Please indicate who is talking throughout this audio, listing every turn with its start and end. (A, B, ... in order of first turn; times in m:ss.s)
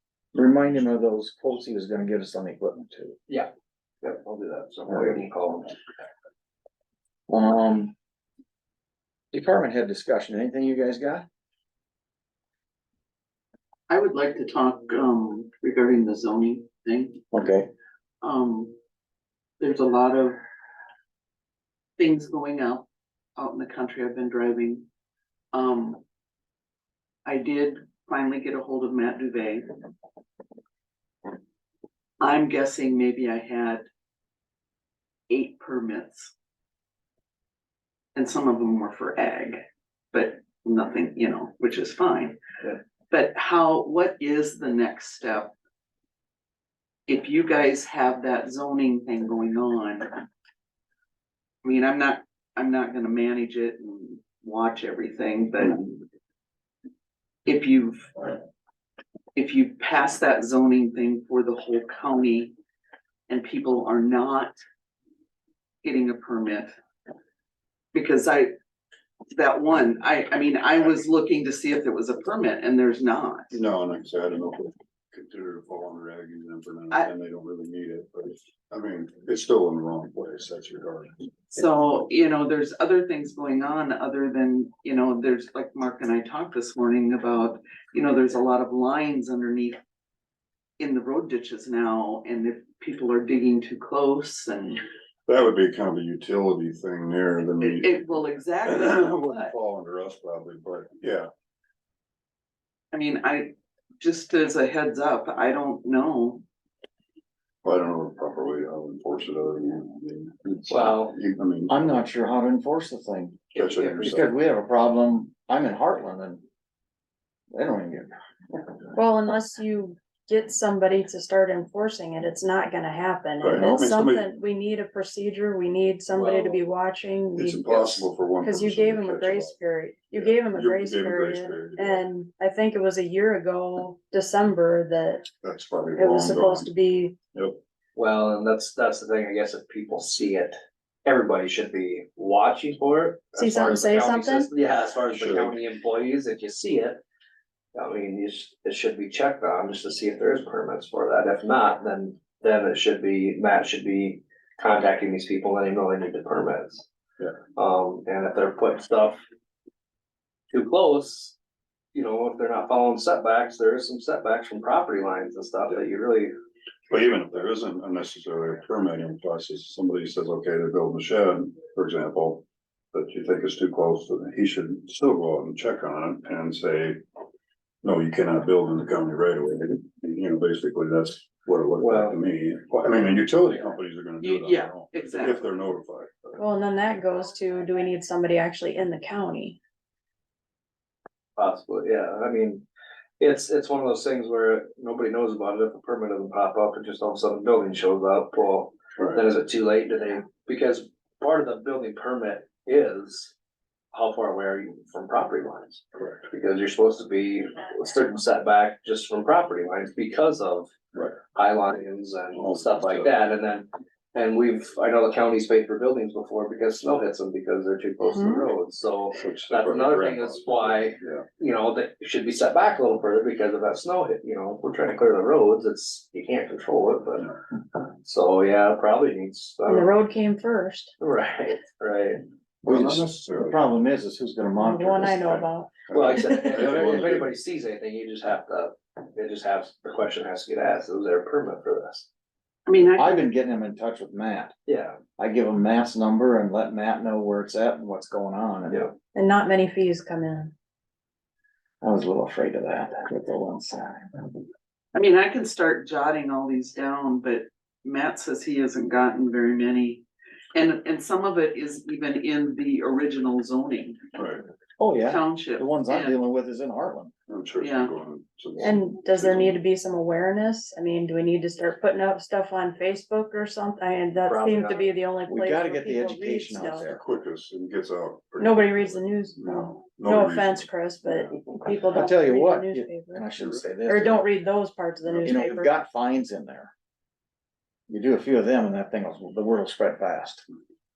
0:00.3-0:03.2 A
0:04.0-0:05.7 B
0:07.3-0:07.9 A
0:09.3-0:11.2 A
0:13.9-0:17.2 C
0:17.3-0:17.7 A
0:18.2-0:18.7 C
0:19.6-0:20.4 C
0:22.0-0:24.8 C
0:25.5-0:26.0 C
0:27.2-0:29.7 C
0:32.2-0:33.8 C
0:35.3-0:36.3 C
0:38.1-0:42.4 C
0:43.1-0:45.5 C
0:47.1-0:50.1 C
0:51.6-0:56.0 C
0:57.4-0:58.3 C
0:59.3-1:02.5 C
1:03.3-1:04.6 C
1:05.8-1:06.7 C
1:07.9-1:08.5 C
1:09.3-1:13.6 C
1:13.5-1:21.1 D
1:21.5-1:29.8 C
1:30.8-1:34.8 C
1:35.3-1:38.1 D
1:37.6-1:39.5 C
1:38.6-1:41.3 D
1:42.9-1:46.4 C
1:47.6-1:52.0 D
1:50.7-1:51.2 B
1:51.7-1:53.5 A
1:53.5-1:54.2 D
1:53.6-1:54.1 B
1:54.0-1:56.4 A
1:57.5-1:58.1 A
1:59.0-2:15.3 E
2:03.4-2:04.3 D
2:06.1-2:06.6 B
2:07.3-2:09.6 D
2:10.1-2:12.1 D
2:15.4-2:16.7 D
2:15.9-2:17.2 E
2:18.0-2:27.0 B
2:23.4-2:24.5 E
2:25.1-2:25.6 D
2:27.7-2:36.8 B
2:37.6-2:39.2 B
2:40.5-2:41.4 B
2:41.9-2:46.3 B
2:46.9-2:57.0 D
2:57.8-3:06.4 D
3:01.8-3:02.2 B
3:04.2-3:05.4 C
3:06.4-3:09.6 E
3:11.4-3:12.6 B
3:13.2-3:23.3 B
3:23.9-3:30.7 B
3:31.2-3:47.3 B
3:32.3-3:33.1 D
3:38.0-3:38.5 E
3:39.1-3:41.2 D
3:48.0-3:49.9 B
3:49.7-3:50.9 E
3:51.0-3:52.2 B
3:52.6-3:53.6 D
3:52.6-3:55.4 A
3:54.5-3:55.8 E
3:55.8-3:57.3 D
3:55.9-4:02.1 B
4:02.7-4:03.2 C
4:02.9-4:04.5 A
4:04.7-4:05.0 B
4:05.2-4:08.8 A
4:09.1-4:10.5 E
4:11.8-4:14.1 A
4:14.9-4:24.0 C
4:24.1-4:24.4 D
4:24.8-4:27.1 A
4:25.0-4:26.1 C
4:27.3-4:29.6 D
4:27.6-4:27.9 C
4:28.6-4:37.0 E
4:34.2-4:34.9 B
4:35.3-4:37.0 A
4:37.0-4:41.3 D
4:38.4-4:43.3 E
4:41.9-4:44.2 A
4:43.4-4:43.6 D
4:43.8-4:45.7 E
4:45.1-4:45.4 D
4:45.2-4:46.7 A
4:47.9-4:50.4 A